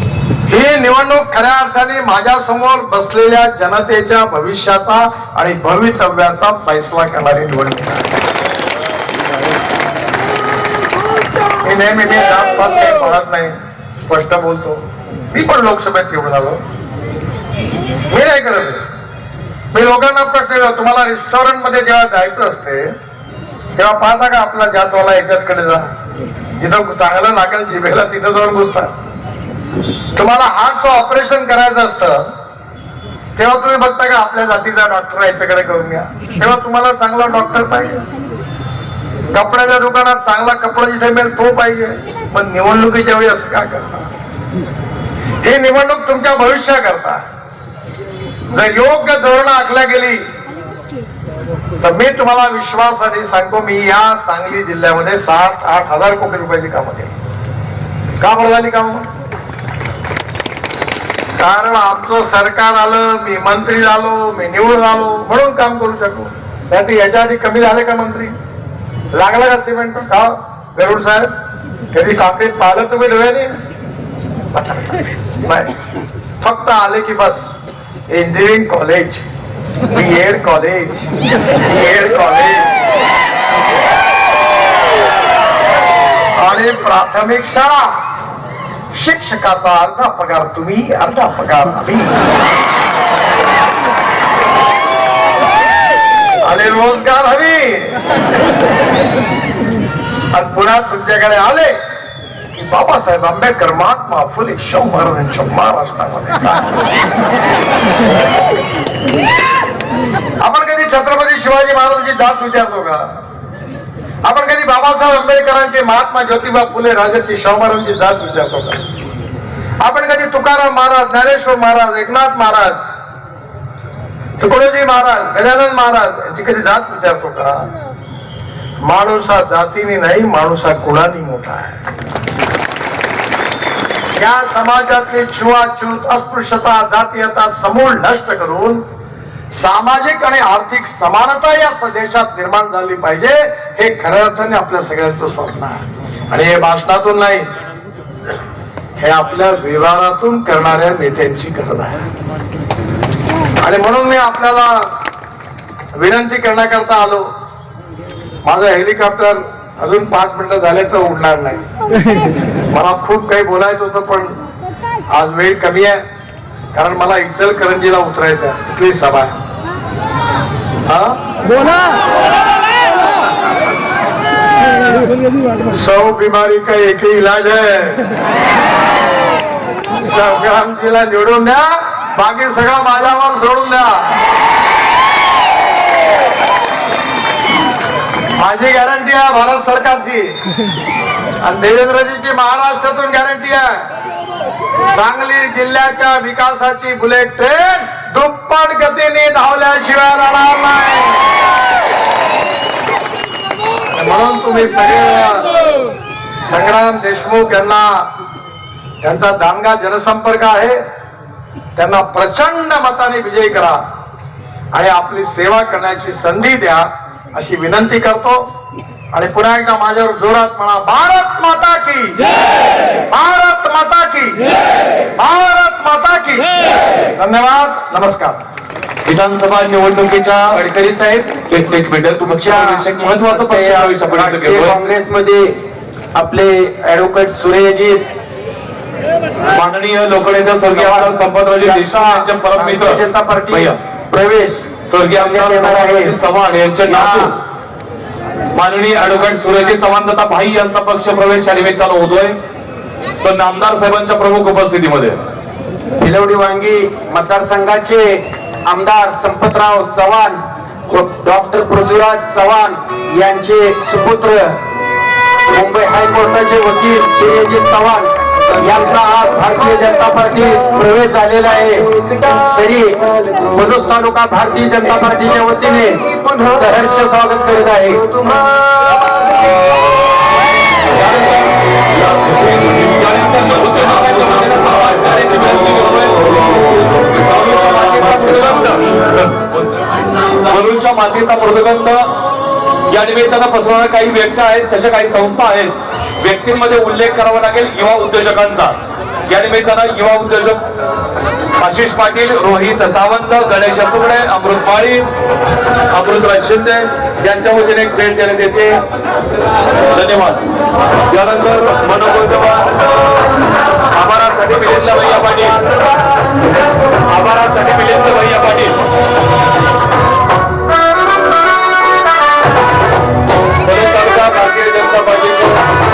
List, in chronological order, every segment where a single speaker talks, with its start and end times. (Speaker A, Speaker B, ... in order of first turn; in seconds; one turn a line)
Speaker A: 0.5-8.0
Speaker A: 11.6-14.8
Speaker A: 15.3-16.6
Speaker A: 18.1-18.8
Speaker A: 19.7-22.9
Speaker A: 23.7-25.8
Speaker A: 26.6-28.9
Speaker A: 30.1-32.3
Speaker A: 33.4-38.0
Speaker A: 39.3-44.1
Speaker A: 45.4-47.2
Speaker A: 48.5-50.2
Speaker A: 51.8-57.1
Speaker A: 58.2-59.0
Speaker A: 61.4-68.3
Speaker A: 69.1-71.3
Speaker A: 71.9-73.5
Speaker A: 74.5-75.7
Speaker A: 76.4-77.5
Speaker A: 78.1-79.2
Speaker A: 79.9-82.7
Speaker A: 86.4-87.9
Speaker A: 88.9-92.2
Speaker A: 96.4-98.0
Speaker A: 100.3-101.7
Speaker A: 102.5-106.7
Speaker A: 110.4-113.0
Speaker A: 114.2-118.8
Speaker A: 119.8-122.8
Speaker A: 124.4-127.7
Speaker A: 128.8-131.8
Speaker A: 134.2-138.8
Speaker A: 139.5-147.4
Speaker A: 149.0-152.0
Speaker A: 153.6-154.9
Speaker A: 155.9-157.2
Speaker A: 158.4-161.6
Speaker A: 162.7-164.4
Speaker A: 165.1-166.0
Speaker A: 166.7-169.3
Speaker A: 170.8-171.2
Speaker A: 175.7-178.1
Speaker A: 180.0-184.2
Speaker A: 188.3-190.3
Speaker A: 191.4-193.8
Speaker A: 194.8-201.2
Speaker A: 203.9-205.5
Speaker A: 206.4-208.1
Speaker A: 209.0-210.8
Speaker A: 211.8-213.8
Speaker A: 214.7-218.4
Speaker A: 219.1-222.2
Speaker A: 223.1-224.4
Speaker A: 225.2-226.6
Speaker A: 227.2-228.4
Speaker B: 229.0-230.6
Speaker C: 230.5-231.3
Speaker B: 231.5-234.8
Speaker C: 232.2-235.6
Speaker C: 236.1-238.0
Speaker B: 239.4-243.8
Speaker C: 240.7-246.2
Speaker B: 244.8-247.3
Speaker C: 246.8-247.3
Speaker B: 248.5-252.3
Speaker B: 253.2-255.2
Speaker C: 256.0-264.6
Speaker C: 265.5-278.5
Speaker B: 280.9-288.9
Speaker B: 290.4-292.1
Speaker B: 292.9-298.7
Speaker B: 299.3-300.6
Speaker B: 301.6-305.1
Speaker B: 305.9-308.8
Speaker B: 309.9-310.5
Speaker B: 311.1-313.0
Speaker B: 313.9-315.6
Speaker B: 317.1-318.8
Speaker B: 323.6-325.6